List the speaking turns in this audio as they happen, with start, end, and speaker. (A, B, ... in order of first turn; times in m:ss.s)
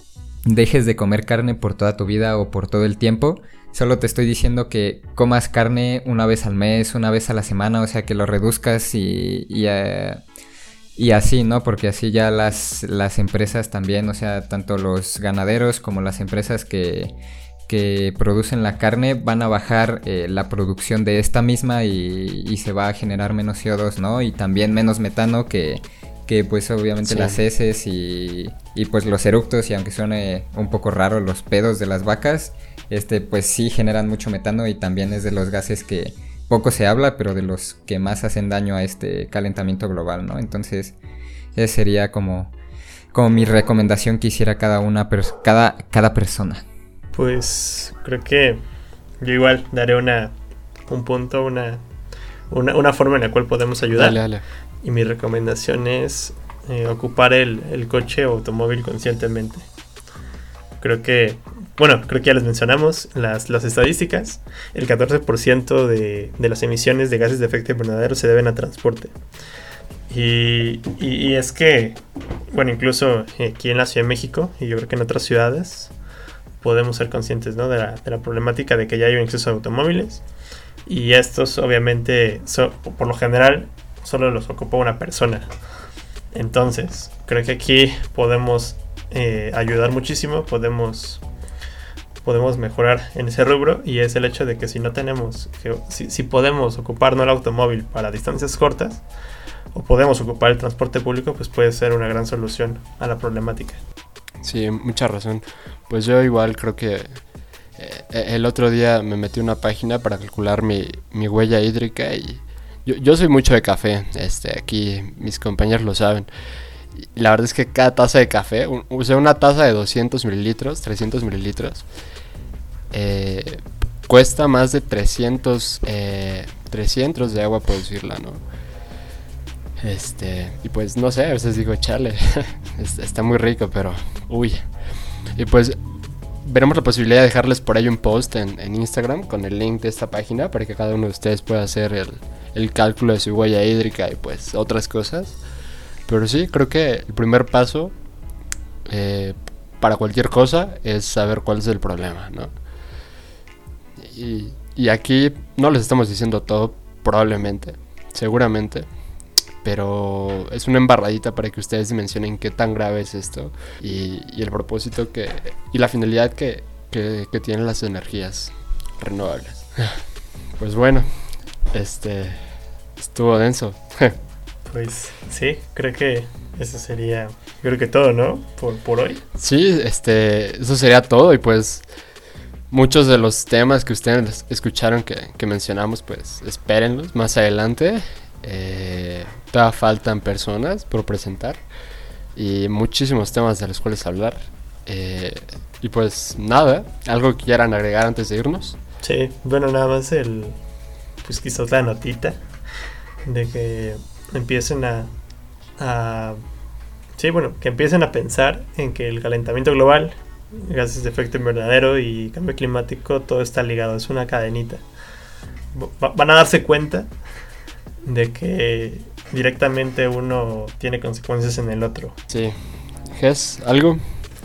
0:00.4-0:10.2 A
0:11.0-0:17.1 A
0:17.7-0:41.0 A
0:27.0-0:27.4 B
0:41.6-0:42.5 A
0:43.1-0:46.6 A
0:47.1-0:48.6 C
0:49.2-0:50.3 C
0:50.9-0:51.8 C
0:52.5-0:54.2 C
0:53.9-0:54.4 B
0:54.8-0:59.6 C
1:00.8-1:09.1 C
1:10.1-1:12.0 C
1:12.5-1:15.9 C
1:16.6-1:20.2 C
1:20.8-1:25.5 C
1:26.3-1:31.2 C
1:32.2-1:39.0 C
1:39.7-1:43.8 C
1:44.4-1:47.2 B
1:47.8-1:56.3 B
1:57.0-2:01.8 B
2:02.9-2:08.4 B
2:09.8-2:14.7 B
2:15.4-2:15.8 B
2:16.4-2:25.4 B
2:26.1-2:27.9 B
2:28.9-2:32.5 B
2:34.0-2:38.9 B
2:39.6-2:50.0 B
2:50.6-2:51.1 B
2:51.7-2:52.4 B
2:53.0-2:54.2 B
2:54.7-2:59.2 C
2:59.4-3:01.8 B
3:02.7-3:11.6 B
3:12.4-3:18.8 B
3:19.0-3:20.6 C
3:21.2-3:22.4 C
3:23.2-3:25.1 C
3:25.8-3:26.4 C
3:27.2-3:34.8 C
3:35.7-3:37.1 C
3:38.0-3:42.2 C
3:42.3-3:42.6 B
3:43.1-3:44.0 B